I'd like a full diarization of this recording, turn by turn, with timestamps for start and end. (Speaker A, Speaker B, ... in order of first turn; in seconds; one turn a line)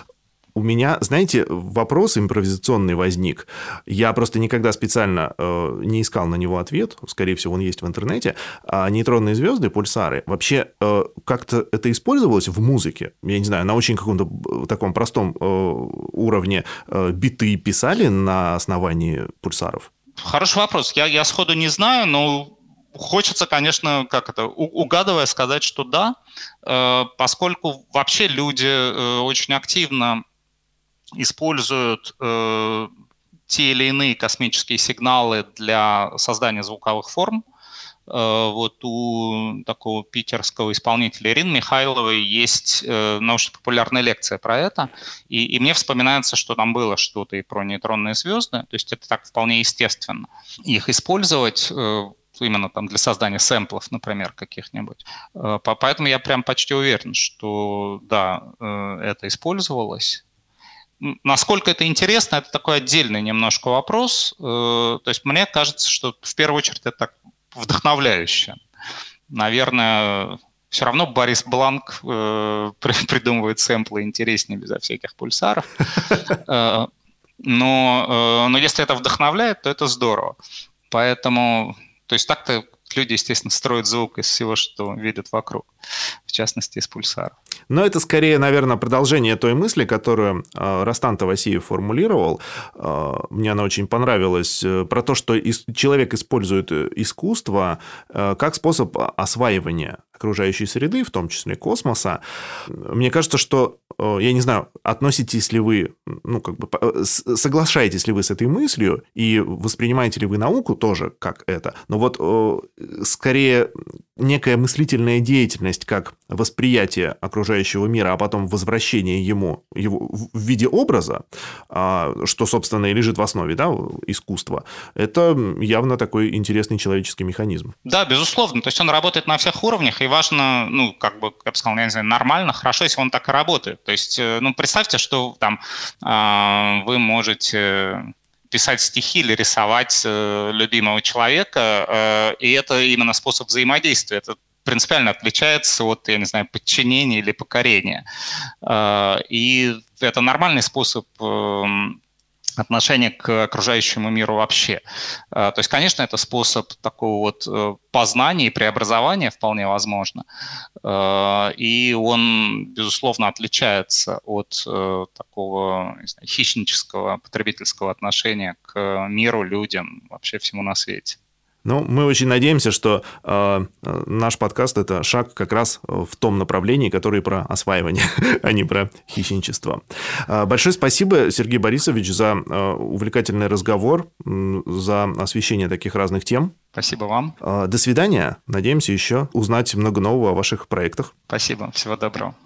Speaker A: 0.5-19.9
Speaker B: 20.2-30.2
Speaker B: 31.1-32.9
Speaker B: 33.5-37.4
Speaker B: 38.1-60.2
Speaker B: 61.0-68.6
Speaker B: 69.3-76.9
Speaker B: 77.4-80.4
Speaker B: 80.9-85.7
Speaker B: 86.3-87.3
Speaker A: 87.7-127.7
Speaker B: 127.8-148.0
Speaker B: 148.6-152.0
Speaker B: 152.6-160.2
Speaker B: 160.8-171.2
Speaker A: 171.6-186.5
Speaker B: 186.7-187.3
Speaker A: 187.4-191.1
Speaker B: 191.3-192.3